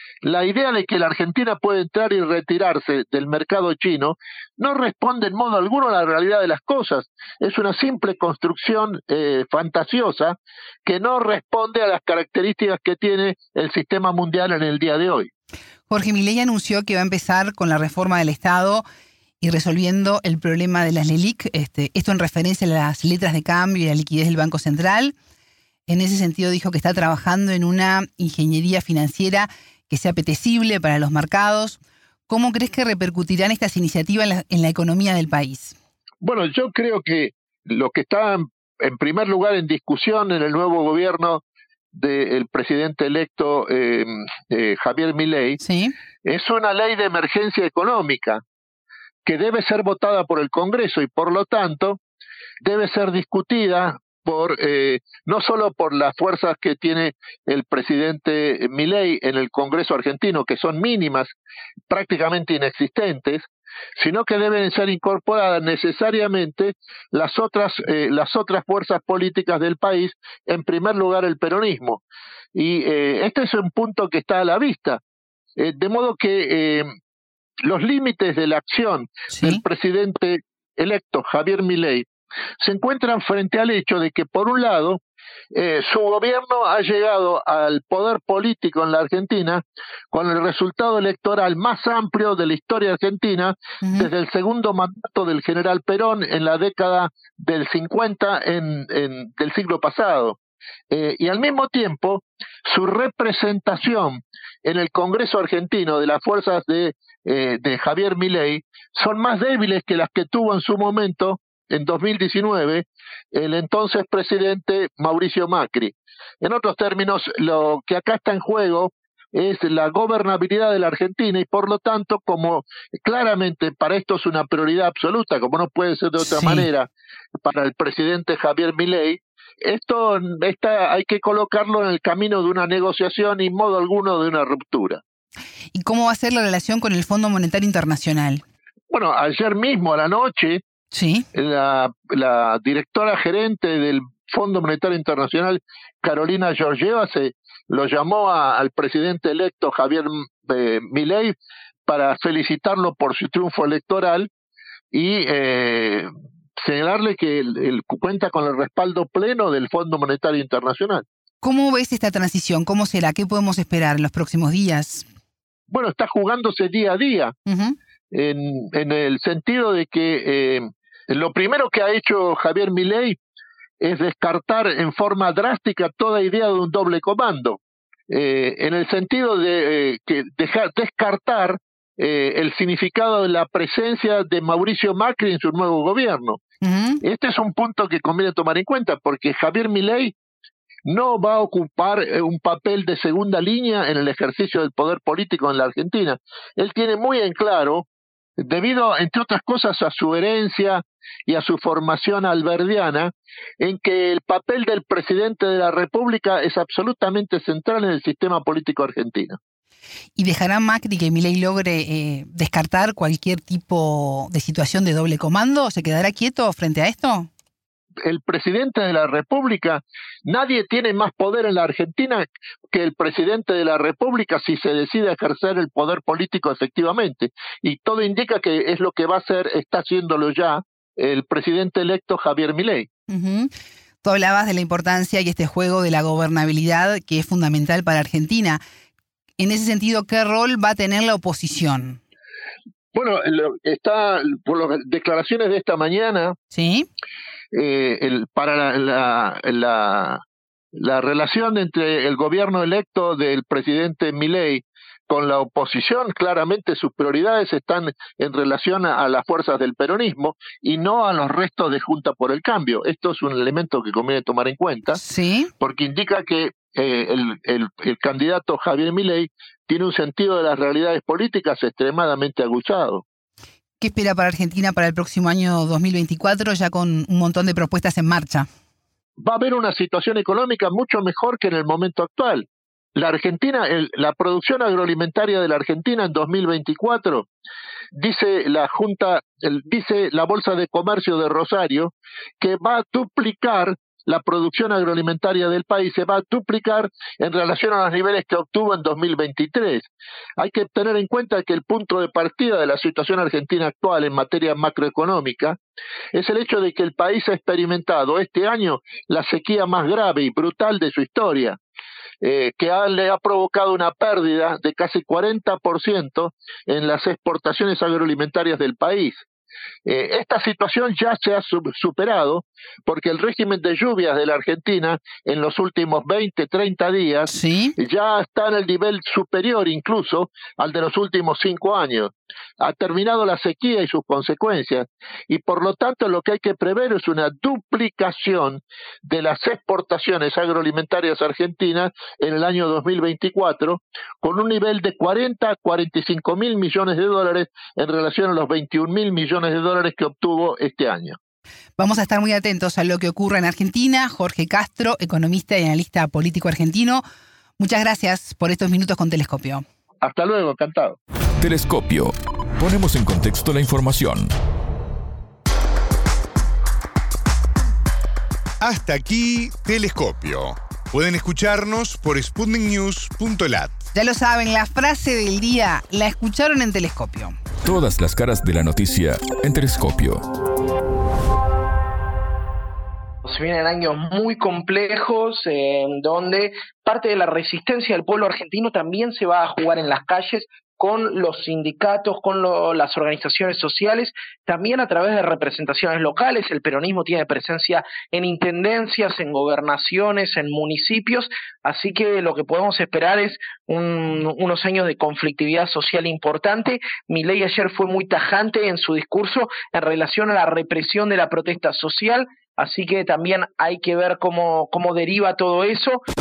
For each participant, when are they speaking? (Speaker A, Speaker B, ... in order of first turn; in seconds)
Speaker A: 0.2-15.3, 36.2-41.4, 41.9-45.6, 46.2-48.4, 49.2-52.0, 52.6-61.3, 61.9-72.0, 72.5-75.0, 75.6-76.9, 77.6-82.1, 82.6-85.0, 85.5-100.4, 100.9-126.9, 127.4-135.0, 138.9-140.6, 141.3-151.3, 151.9-154.3, 154.9-161.0, 165.7-167.3, 168.1-173.2, 173.8-186.4, 187.0-190.1, 190.8-197.8, 198.4-209.4, 218.0-232.9, 242.9-246.4, 247.5-250.2, 250.7-265.0, 265.6-273.0, 279.2-287.3, 287.9-305.6, 306.1-311.6, 312.2-319.2, 319.8-351.2, 360.0-361.0
Speaker B: 15.9-18.8, 19.4-25.1, 25.9-35.7, 45.6-45.9, 79.3-79.6, 93.8-94.1, 126.2-126.7, 135.7-138.4, 140.9-141.3, 161.4-165.0, 167.5-167.8, 186.6-187.0, 210.2-217.3, 233.1-233.5, 234.0-238.6, 239.4-242.0, 246.5-246.9, 264.9-265.5, 273.8-278.5, 327.3-327.7, 351.8-357.0, 357.6-359.6, 373.9-377.4
Speaker C: 361.4-364.3, 377.6-380.2
Speaker D: 368.6-373.7
Speaker E: 383.2-416.0